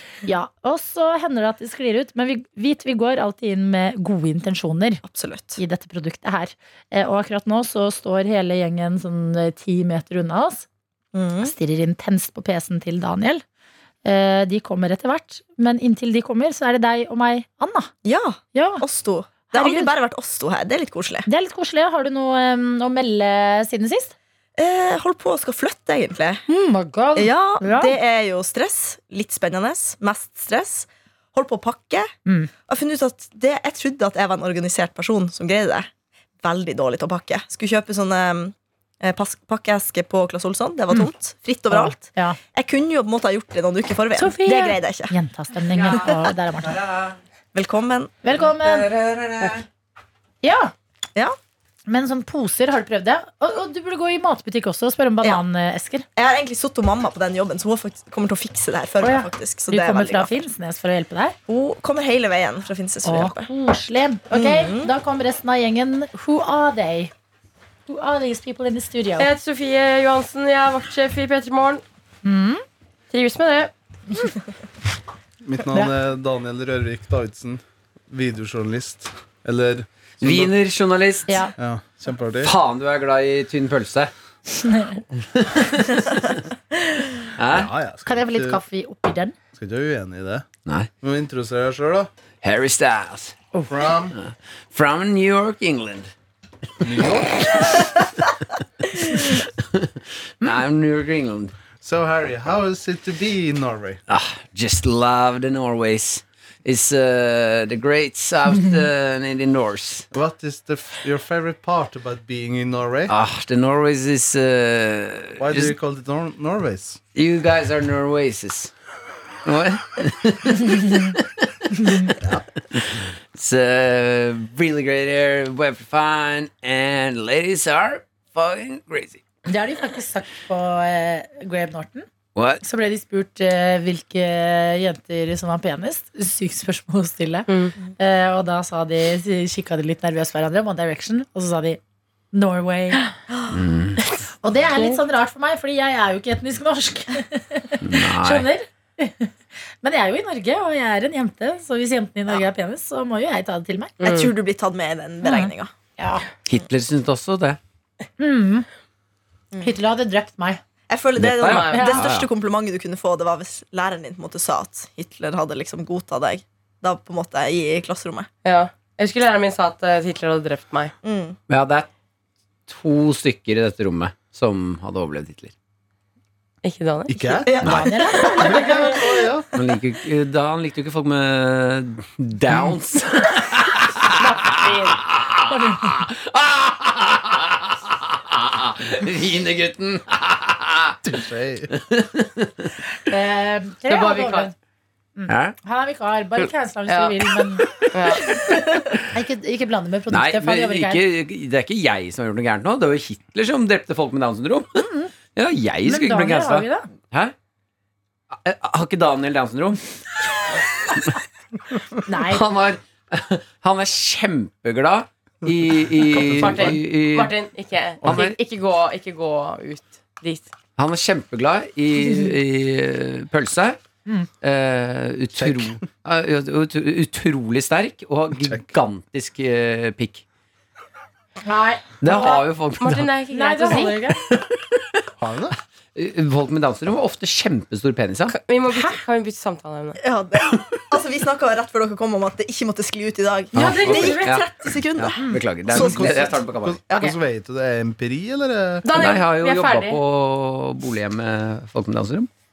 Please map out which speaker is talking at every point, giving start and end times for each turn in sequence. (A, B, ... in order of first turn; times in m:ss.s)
0:00.2-0:05.0 A
0:05.0-0:05.6 B
0:05.6-0:10.6 A
0:11.1-0:11.5 B
0:11.4-0:13.4 A
0:14.0-0:17.9 A
0:18.0-0:21.3 B
0:18.5-0:18.8 A
0:19.4-0:19.9 A
0:21.2-0:24.1 A
0:24.6-0:26.4 B
0:26.5-0:28.0 A
0:27.2-0:32.1 B
0:32.7-0:35.9 B
0:36.4-0:45.1 B
0:41.7-0:42.4 A
0:44.2-0:46.8 A
0:46.6-0:47.2 C
0:47.5-0:48.2 B
0:48.2-0:48.9 A
0:48.4-0:49.6 C
0:50.4-0:50.7 A
0:51.9-0:56.0 A
0:56.2-1:00.3 B
0:59.0-1:01.4 A
1:01.5-1:03.5 B
1:03.0-1:07.1 A
1:04.3-1:04.9 B
1:07.9-1:09.3 A
1:09.2-1:11.8 D
1:12.2-1:12.6 A
1:13.1-1:13.7 D
1:15.4-1:20.5 E
1:20.2-1:21.5 C
1:21.6-1:22.5 E
1:22.4-1:24.1 C
1:24.6-1:25.0 A
1:25.1-1:26.4 C
1:27.4-1:27.7 C
1:27.5-1:28.6 E
1:28.0-1:29.4 A
1:29.5-1:30.5 E
1:31.0-1:32.1 E
1:32.4-1:33.4 C
1:33.6-1:34.2 E
1:34.1-1:36.1 C
1:36.8-1:37.6 E
1:37.4-1:38.1 C
1:38.9-1:41.5 C
1:41.8-1:44.0 E
1:44.1-1:50.1 C
1:50.1-1:53.1 E
1:53.1-1:55.7 C
1:55.4-1:57.0 E
1:57.1-1:58.7 C
1:59.4-2:09.2 C
2:00.9-2:01.1 A
2:01.7-2:02.1 A
2:09.5-2:12.1 A
2:12.3-2:12.6 C
2:12.6-2:21.8 A
2:17.5-2:17.7 D
2:22.3-2:23.1 A
2:23.3-2:23.6 B
2:23.5-2:24.0 C
2:24.2-2:34.0 A
2:27.8-2:28.4 C
2:34.0-2:34.3 D
2:34.0-2:35.7 B
2:35.2-2:36.2 A
2:36.4-2:37.6 C
2:38.2-2:38.7 A
2:39.6-2:40.6 A
2:40.9-2:48.3 B
2:41.2-2:42.3 C
2:41.4-2:41.9 D
2:41.7-2:42.0 A
2:48.4-2:50.9 D
2:51.0-2:51.4 B
2:51.5-2:51.9 C
2:52.7-2:55.5 C
2:56.6-2:57.4 D
2:57.1-2:59.5 E
2:57.4-2:58.9 B
2:57.6-2:58.8 A
2:59.5-3:11.0 C
3:04.2-3:05.0 D
3:05.5-3:06.0 A
3:11.0-3:11.7 E
3:11.7-3:12.8 C
3:13.0-3:14.5 A
3:13.9-3:14.5 D
3:15.2-3:17.7 A
3:15.3-3:15.6 C
3:16.9-3:17.2 D
3:17.8-3:18.4 D
3:19.1-3:21.0 A
3:20.1-3:27.3 C
3:24.8-3:25.1 A
3:25.8-3:26.9 A
3:28.3-3:29.8 C
3:32.1-3:32.4 A
3:32.2-3:37.3 C
3:35.4-3:36.8 E
3:36.3-3:40.5 D
3:38.0-3:38.3 E
3:38.0-3:38.4 C
3:40.8-3:43.8 C
3:44.4-3:50.2 C
3:45.4-3:45.8 E
3:48.4-3:48.6 E
3:51.4-3:52.4 A
3:52.0-3:53.1 C
3:52.8-3:54.1 D
3:53.3-3:54.2 A
3:54.3-3:54.6 C
3:55.2-3:55.6 E
3:55.9-3:58.4 C
3:58.3-4:00.0 D
3:58.7-3:59.0 A
4:00.0-4:07.1 B
4:00.5-4:00.8 C
4:03.5-4:04.2 D
4:03.5-4:06.8 C
4:03.6-4:04.2 A
4:05.7-4:09.0 E
4:08.8-4:10.0 D
4:08.9-4:12.3 C